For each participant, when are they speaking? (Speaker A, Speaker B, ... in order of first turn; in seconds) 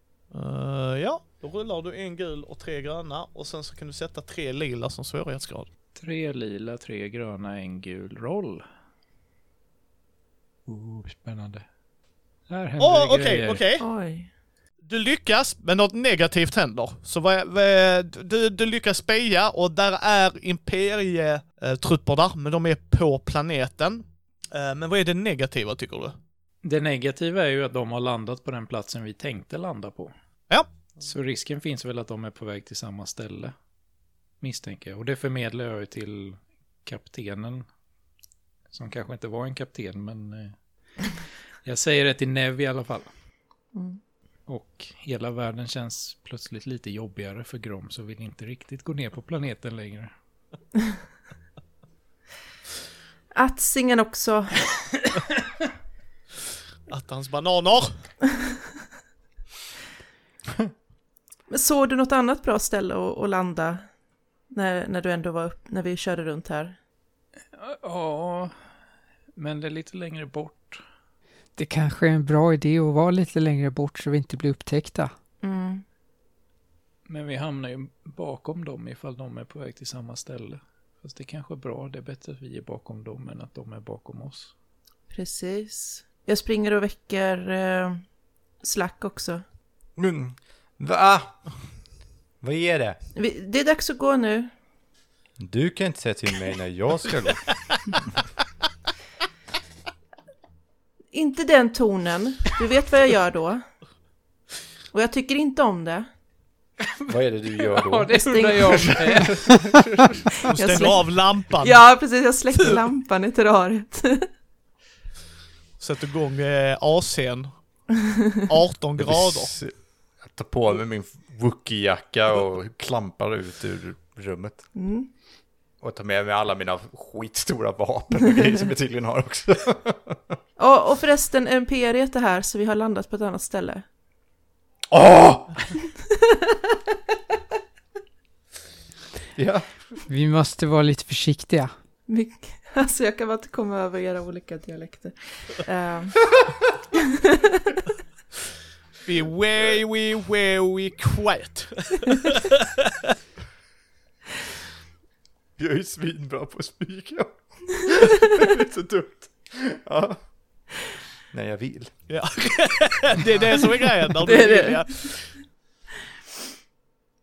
Speaker A: 0.3-5.7, 12.8-13.8, 14.8-26.2, 56.9-58.0, 110.4-111.8, 115.8-117.5, 118.5-119.5, 149.1-153.1, 162.1-165.2
Speaker B: 6.0-8.7, 10.7-11.7, 12.5-13.6, 26.6-30.1, 31.0-33.5, 34.4-37.7, 38.7-41.1, 41.6-43.1, 44.5-50.1, 67.5-68.5, 69.4-70.8, 77.1-84.5, 106.8-109.7
Speaker C: 13.8-14.3, 43.7-44.0, 53.4-54.7, 61.5-63.9, 64.5-66.8, 75.4-75.8, 85.1-88.0, 88.6-89.4, 93.2-94.5, 101.1-103.7, 104.9-106.1, 108.1-109.3, 110.4-114.3, 118.0-118.4, 124.8-125.1, 130.6-133.8, 142.1-146.3, 146.9-147.6, 164.2-164.9
Speaker D: 71.6-75.1, 140.1-141.7
Speaker E: 90.0-91.4, 92.4-93.0, 95.4-97.5, 107.1-110.0, 119.0-124.6, 125.8-130.4, 134.9-135.6, 139.3-139.7, 155.6-160.2, 161.3-161.9